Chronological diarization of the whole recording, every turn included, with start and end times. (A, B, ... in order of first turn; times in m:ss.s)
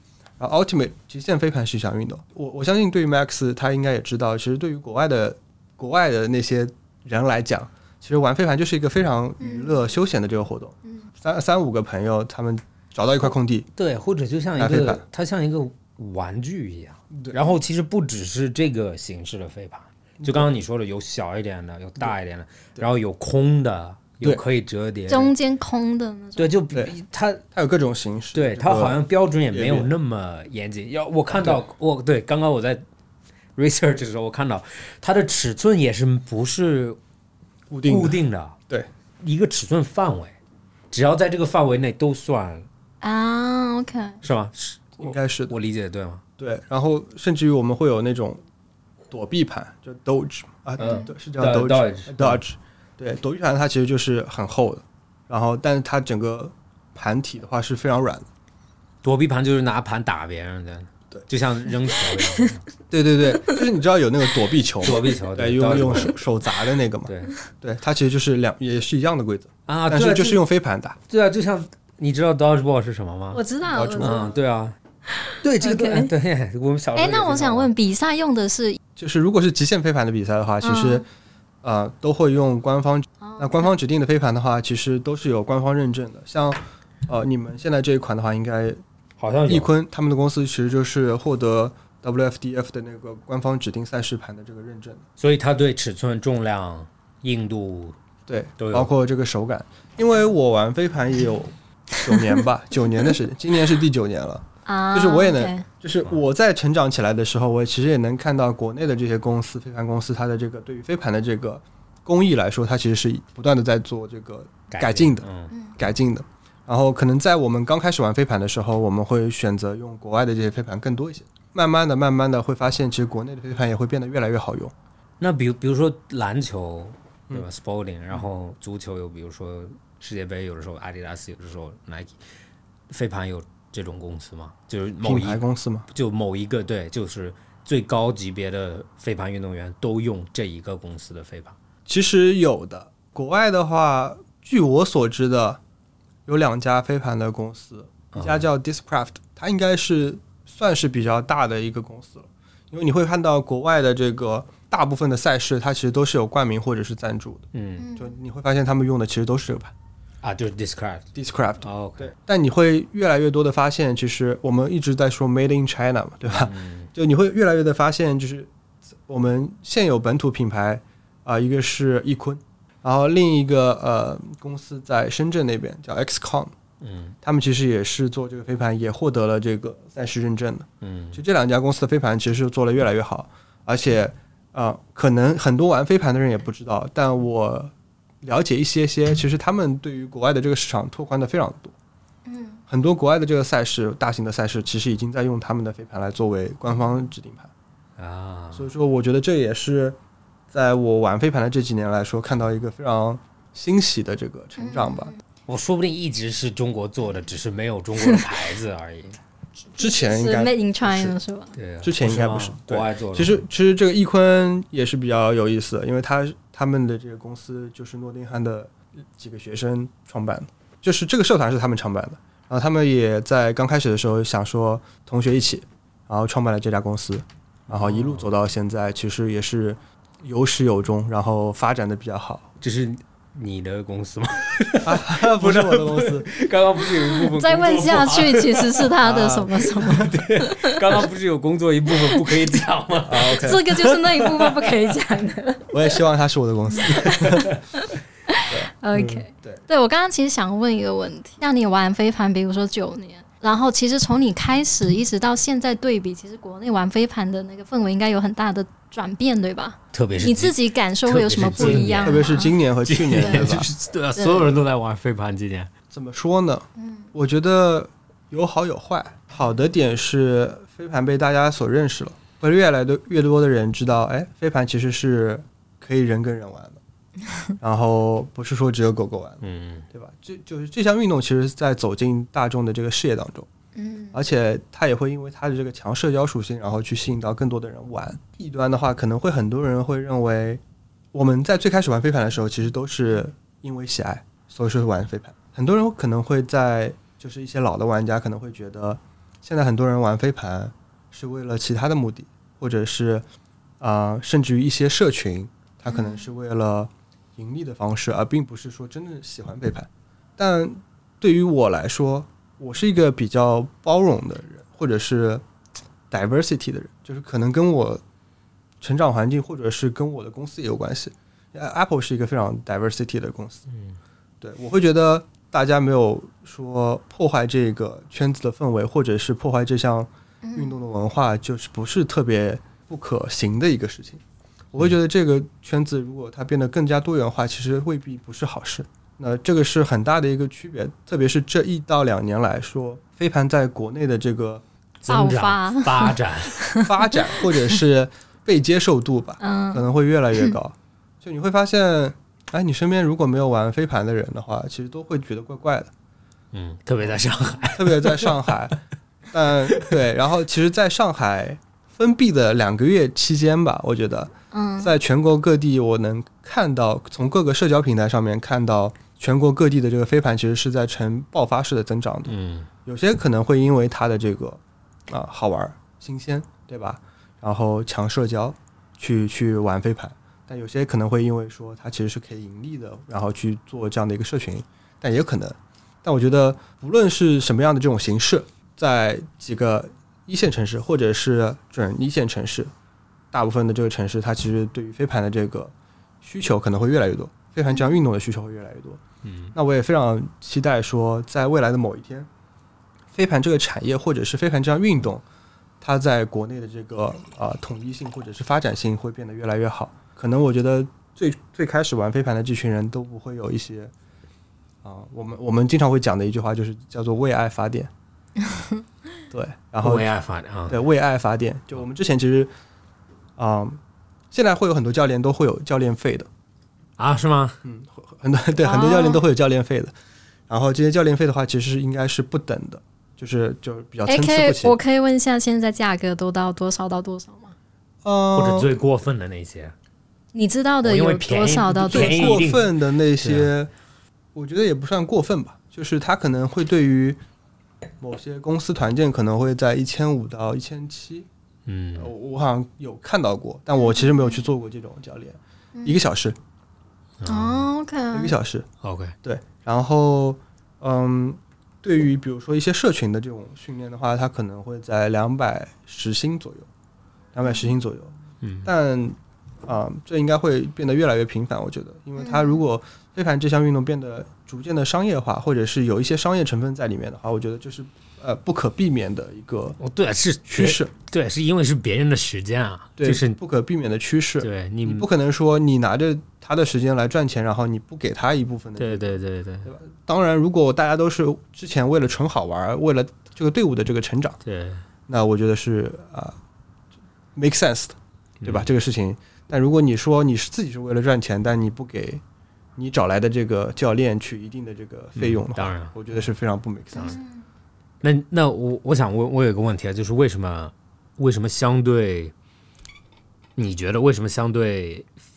0:00.4-0:13.7 A
0:09.4-0:09.8 B
0:13.8-0:25.3 C
0:14.6-0:15.0 A
0:20.2-0:20.5 A
0:25.1-0:26.6 B
0:26.4-0:27.4 C
0:27.5-0:29.9 A
0:28.3-0:32.8 C
0:31.3-0:31.6 A
0:33.6-0:37.0 C
0:37.7-0:38.9 A
0:37.8-0:38.6 C
0:39.2-0:40.3 C
0:40.9-0:42.7 C
0:43.0-0:44.2 B
0:44.2-0:46.2 C
0:45.0-0:45.5 A
0:46.4-0:48.4 A
0:49.1-0:58.2 A
0:50.8-0:52.4 C
0:50.8-0:51.1 B
0:59.0-1:02.6 C
1:02.9-1:11.0 A
1:04.8-1:06.2 C
1:07.0-1:07.3 C
1:09.7-1:10.4 C
1:11.1-1:13.4 C
1:13.3-1:14.3 B
1:13.7-1:14.2 A
1:14.0-1:14.8 C
1:15.2-1:16.1 B
1:15.4-1:17.7 C
1:17.0-1:18.8 B
1:19.0-1:21.0 A
1:20.6-1:21.0 B
1:21.6-1:28.8 A
1:23.2-1:23.6 B
1:29.2-1:29.7 C
1:29.5-1:35.0 A
1:35.2-1:38.0 C
1:38.3-2:04.7 A
1:38.6-1:38.9 C
1:44.6-1:45.6 B
1:54.7-1:55.5 C
2:05.2-2:12.2 C
2:12.9-2:21.6 C
2:15.0-2:15.9 A
2:21.8-2:25.6 A
2:26.2-2:39.7 A
2:28.1-2:28.4 C
2:37.5-2:37.9 C
2:37.8-2:38.1 B
2:40.2-2:42.1 C
2:41.1-2:48.5 A
2:46.3-2:46.9 C
2:49.0-2:56.5 A
2:56.8-2:57.2 C
2:57.2-3:11.7 A
3:00.8-3:01.2 C
3:12.2-3:12.6 B
3:12.7-3:17.5 A
3:18.0-3:18.7 C
3:18.5-3:20.0 A
3:20.5-3:25.1 A
3:24.6-3:25.2 B
3:25.5-3:29.2 C
3:29.8-3:31.2 A
3:29.8-3:31.5 B
3:31.5-3:33.4 C
3:31.8-3:52.5 A
3:47.7-3:48.3 C
3:52.6-3:58.9 C
3:54.8-3:56.3 A
3:57.1-4:00.7 B
3:59.0-4:00.1 A
3:59.8-4:04.7 C
4:03.0-4:03.8 A
4:03.2-4:05.8 B
4:05.7-4:07.5 A
4:06.8-4:07.4 B
4:08.3-4:22.6 B
4:08.5-4:09.6 A
4:19.9-4:22.3 C
4:21.6-4:23.7 A
4:22.8-4:25.7 C
4:23.2-4:23.5 B
4:24.2-4:24.5 B
4:25.9-4:36.8 A
4:26.8-4:27.0 B
4:37.6-4:43.5 A
4:39.4-4:39.8 C
4:43.7-4:44.2 B
4:44.1-4:50.6 A
4:51.1-5:03.2 A
5:03.8-5:15.4 A
5:05.9-5:06.2 B
5:16.1-5:18.0 A
5:18.8-5:23.6 A
5:23.7-5:24.0 C
5:24.4-5:34.2 A
5:30.4-5:30.8 B
5:34.7-5:44.6 A
5:45.0-5:46.6 C
5:45.1-5:47.2 B
5:46.8-5:55.9 A
5:49.4-5:50.6 B
5:56.5-5:58.5 C
5:57.7-5:58.8 A
5:59.3-6:12.3 A
6:04.5-6:04.9 B
6:12.3-6:12.7 C
6:12.8-6:32.7 A
6:33.3-6:39.0 A
6:37.7-6:38.0 B
6:39.2-6:39.5 C
6:39.5-6:42.3 A
6:43.1-6:45.2 A
6:45.8-6:53.9 A
6:54.8-6:57.9 A
6:58.5-6:58.8 B
6:59.3-7:00.1 A
6:59.8-7:00.8 C
7:00.7-7:02.5 A
7:03.4-7:03.8 A
7:04.3-7:06.3 A
7:07.0-7:07.6 C
7:07.6-7:09.9 A
7:08.6-7:09.2 B
7:10.5-7:14.8 A
7:14.0-7:17.5 B
7:18.0-7:18.7 A
7:18.3-7:19.7 C
7:20.3-7:22.4 B
7:20.8-7:23.5 C
7:21.8-7:23.7 A
7:24.3-7:27.2 A
7:28.0-7:31.3 A
7:31.6-7:32.1 C
7:32.0-7:36.4 A
7:33.8-7:34.4 B
7:37.2-7:37.7 C
7:37.2-7:38.4 B
7:38.1-7:38.7 A
7:38.8-7:39.1 C
7:39.2-7:46.7 A
7:47.3-7:59.8 A
7:48.4-7:48.7 C
7:52.2-7:52.6 B
7:59.8-8:03.4 C
8:00.5-8:00.9 A
8:03.0-8:14.4 A
8:04.4-8:05.1 C
8:08.8-8:09.7 C
8:14.4-8:14.8 C
8:15.1-8:16.4 A
8:17.3-8:22.2 A
8:18.4-8:18.7 C
8:22.8-8:27.2 A
8:25.2-8:25.9 C
8:26.9-8:27.4 B
8:28.0-8:32.3 C
8:33.6-8:35.1 C